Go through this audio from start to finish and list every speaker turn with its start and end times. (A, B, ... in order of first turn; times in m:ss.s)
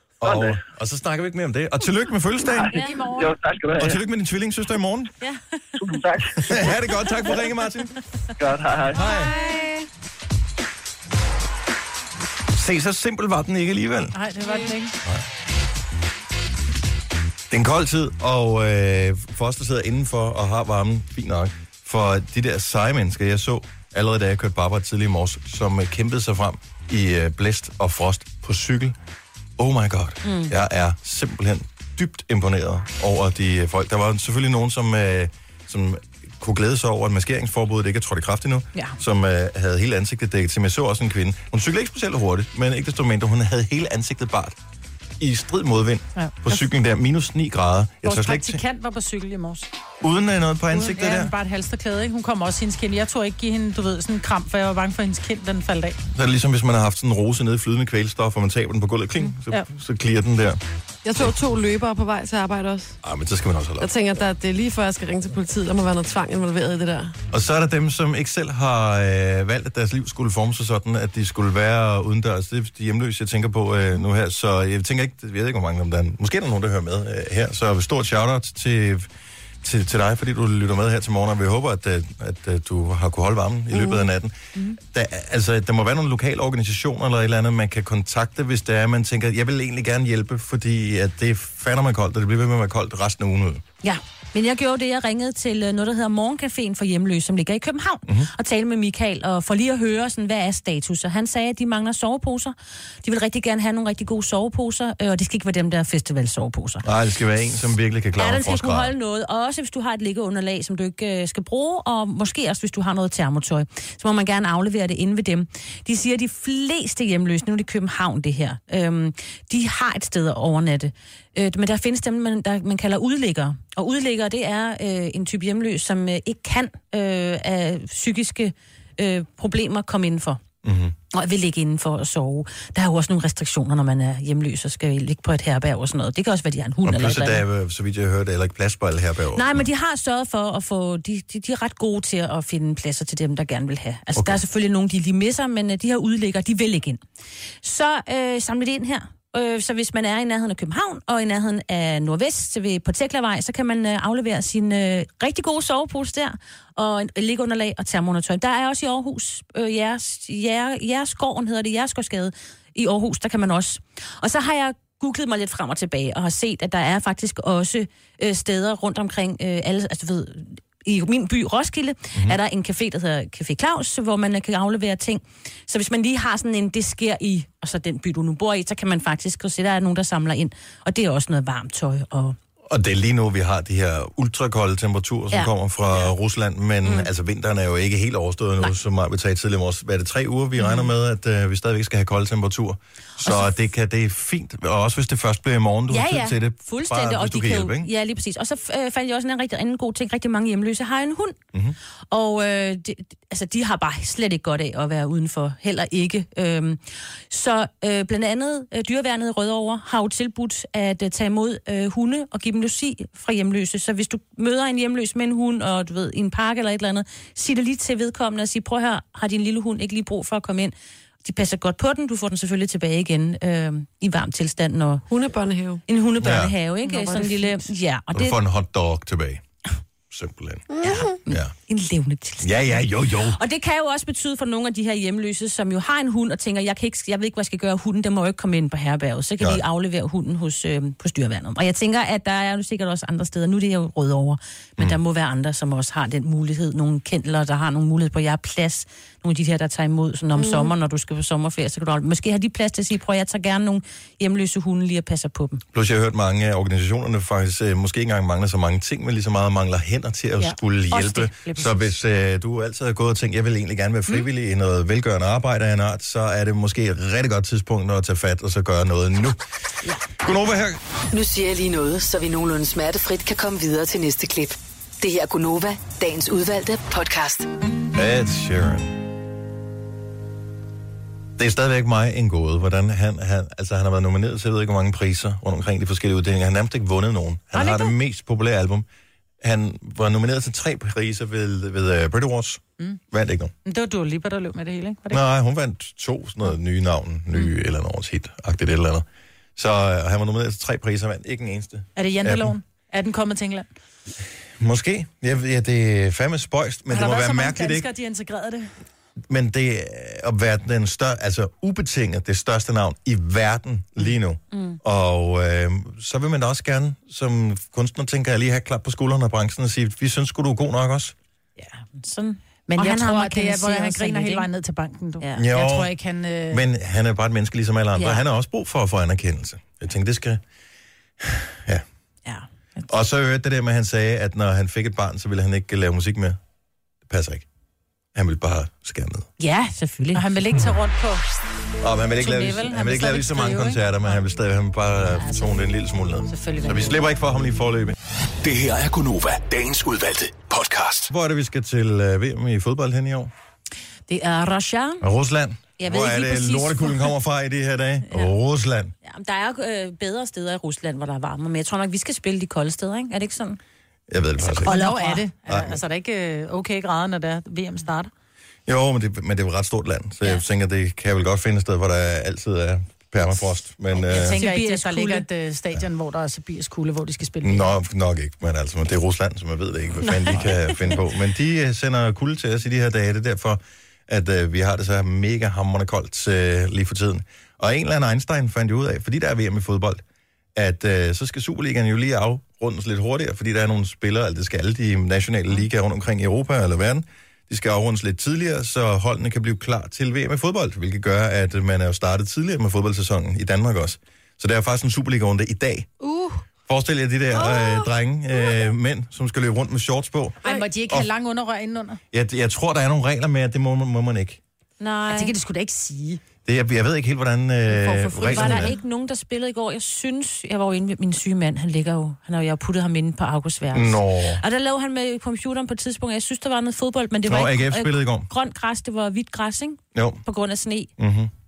0:00.2-0:02.8 A
0:00.2-0:00.6 B
0:02.6-0:04.0 B
0:02.7-0:03.4 C
0:03.8-0:05.1 A
0:05.8-0:06.8 B
0:06.4-0:07.9 A
0:08.4-0:09.0 B
0:09.0-0:09.3 A
0:09.0-0:09.8 D
0:12.5-0:14.2 A
0:14.1-0:15.0 C
0:17.5-0:29.0 A
0:29.6-0:44.6 A
0:30.2-0:30.6 E
0:45.2-0:48.6 A
0:46.2-0:46.6 C
0:48.0-0:49.7 C
0:50.0-0:51.3 A
0:50.8-0:56.0 C
0:56.1-1:00.6 A
1:01.0-1:03.0 D
1:03.0-1:03.9 A
1:03.8-1:07.2 D
1:07.3-1:19.1 A
1:19.6-1:33.6 A
1:23.7-1:24.1 D
1:33.8-1:46.9 E
1:46.8-1:48.9 A
1:48.2-2:10.4 E
2:10.6-2:11.0 A
2:11.1-2:17.4 E
2:16.8-2:19.7 A
2:19.3-2:27.0 E
2:24.2-2:24.4 A
2:27.6-3:02.4 E
3:02.7-3:17.9 A
3:05.3-3:06.1 E
3:06.8-3:07.1 E
3:10.6-3:10.9 E
3:13.2-3:13.5 E
3:15.9-3:21.4 E
3:22.1-3:45.1 E
3:45.1-3:45.8 D
3:45.9-3:48.4 E
3:46.2-3:46.5 A
3:46.8-3:47.7 C
3:48.1-3:49.4 A
3:50.1-3:50.7 A
3:50.7-3:51.1 D
3:50.8-4:15.6 E
3:51.3-3:51.5 A
3:52.4-3:53.4 A
4:10.4-4:10.7 D
4:15.7-4:29.4 A
4:20.9-4:21.8 E
4:30.2-4:30.8 A
4:31.1-4:37.5 F
4:37.9-4:38.9 A
4:41.4-4:48.9 A
4:47.6-4:47.9 C
4:49.4-4:53.5 A
4:53.6-4:55.2 C
4:55.1-5:02.6 A
5:02.0-5:03.7 C
5:04.6-5:07.9 A
5:06.9-5:08.7 C
5:09.3-5:21.2 A
5:14.5-5:14.8 E
5:21.6-5:24.5 E
5:22.7-5:26.6 C
5:25.4-5:25.9 A
5:26.5-5:30.4 A
5:28.0-5:28.2 E
5:31.2-5:31.8 A
5:32.9-5:36.4 A
5:37.1-5:37.5 A
5:38.2-5:39.3 A
5:39.4-5:40.6 E
5:40.1-5:41.2 C
5:41.8-5:48.0 A
5:42.2-5:44.2 C
5:45.2-5:45.5 E
5:46.3-5:46.9 C
5:48.4-5:51.1 G
5:51.1-5:53.3 A
5:54.1-5:55.0 E
5:55.0-5:58.9 A
5:55.8-5:57.1 E
5:59.0-6:03.6 E
6:04.1-6:04.8 A
6:04.4-6:05.2 E
6:04.6-6:08.1 C
6:05.5-6:05.8 A
6:08.7-6:14.4 A
6:14.1-6:17.7 C
6:14.1-6:15.3 E
6:17.4-6:30.0 A
6:30.6-6:45.9 A
6:46.0-6:46.4 D
6:46.7-6:51.1 A
6:47.5-6:47.7 D
6:50.4-6:52.0 C
6:52.1-6:54.4 A
6:54.8-6:55.3 E
6:55.1-6:56.2 C
6:56.5-6:58.8 A
6:57.7-6:58.8 D
6:58.3-7:10.9 E
7:03.7-7:04.4 A
7:07.3-7:08.3 A
7:10.0-7:10.2 A
7:11.0-7:11.3 A